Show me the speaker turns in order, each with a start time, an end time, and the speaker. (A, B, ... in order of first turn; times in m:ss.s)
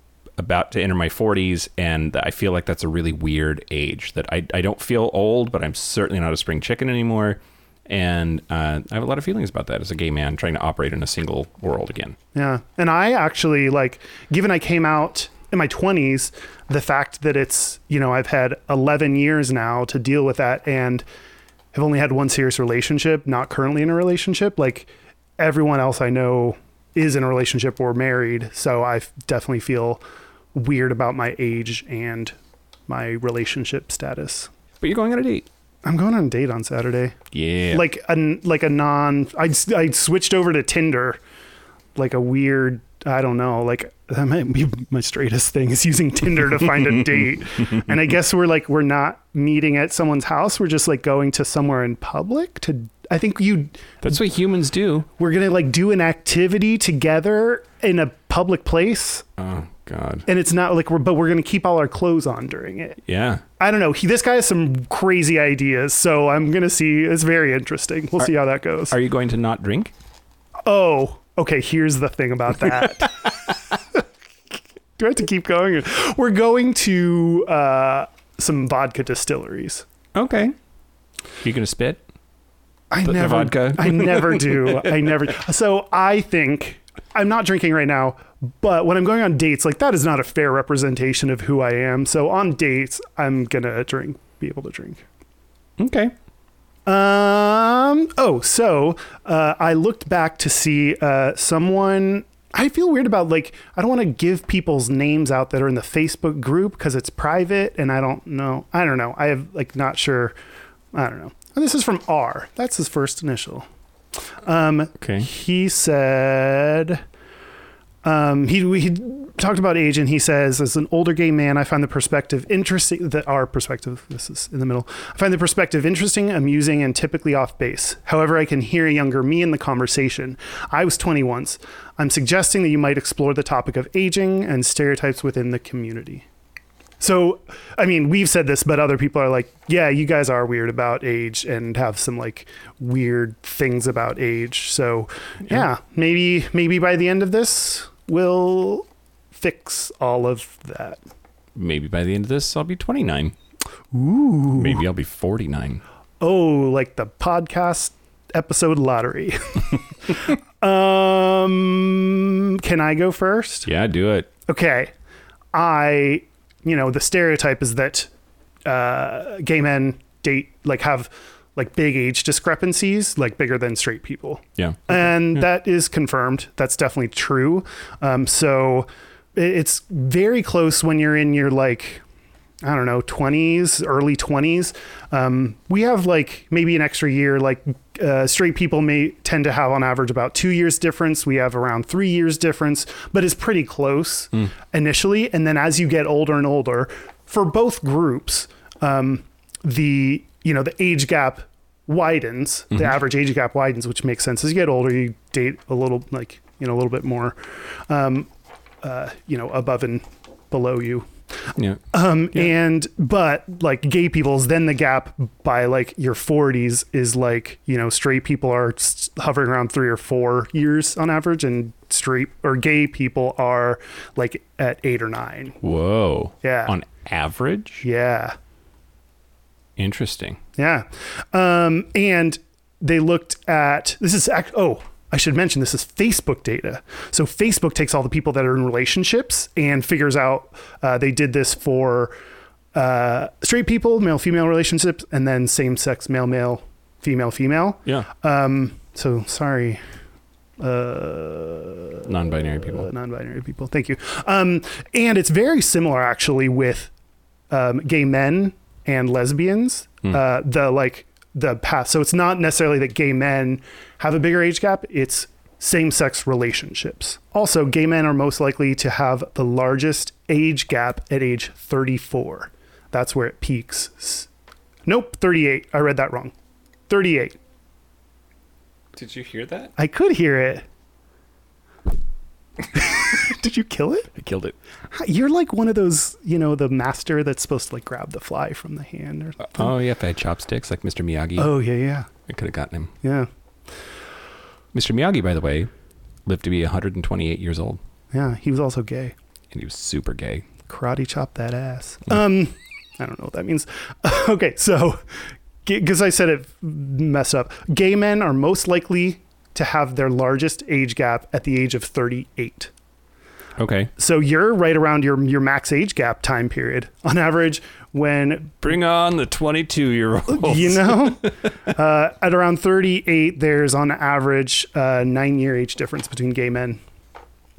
0:00.4-0:12.2 A
0:12.3-0:21.0 B
0:21.7-0:30.0 B
0:30.5-0:32.4 B
0:32.9-0:34.5 B
0:34.8-0:35.5 A
0:35.8-0:37.2 B
0:37.3-0:37.8 A
0:37.7-0:41.2 B
0:42.0-0:53.9 B
0:54.0-0:55.1 A
0:55.2-0:59.3 B
0:59.4-1:00.2 A
1:00.2-1:03.0 B
1:03.0-1:03.4 A
1:03.6-1:09.0 B
1:08.9-1:09.9 A
1:10.6-1:14.0 B
1:15.0-1:19.8 B
1:20.1-1:20.5 A
1:21.4-1:22.0 A
1:22.9-1:35.0 B
1:23.0-1:25.1 A
1:35.8-1:36.1 A
1:36.8-1:50.3 B
1:50.9-1:53.6 B
1:54.4-1:57.0 B
1:55.0-1:55.3 A
1:58.0-2:16.2 B
2:17.0-2:31.0 B
2:31.5-2:33.3 A
2:33.9-2:34.8 B
2:34.5-2:35.8 A
2:36.2-2:43.7 B
2:43.6-2:44.3 A
2:44.5-2:44.9 B
2:45.5-2:48.1 B
2:48.6-3:02.0 B
2:54.6-2:55.1 A
3:02.6-3:28.3 B
3:28.8-3:31.1 B
3:31.5-3:31.8 A
3:31.9-3:45.6 B
3:45.6-3:47.8 A
3:46.4-3:46.7 B
3:47.8-3:48.4 B
3:49.8-3:50.4 A
3:50.6-4:02.1 B
4:02.7-4:09.8 B
4:10.6-4:16.9 B
4:12.0-4:12.9 A
4:17.5-4:34.3 B
4:34.8-4:36.3 B
4:36.9-4:37.4 B
4:38.9-4:39.7 A
4:39.8-4:40.6 B
4:42.7-4:44.1 B
4:44.1-4:44.6 A
4:44.9-4:49.7 B
4:49.4-4:51.5 A
4:51.4-4:52.1 B
4:52.2-4:52.9 A
4:53.0-4:53.3 B
4:54.7-4:55.7 A
4:56.2-4:57.8 A
4:58.1-4:59.1 B
4:59.5-5:00.5 A
5:00.6-5:12.7 B
5:13.6-5:13.9 A
5:14.0-5:18.6 B
5:18.6-5:21.3 A
5:20.3-5:26.8 B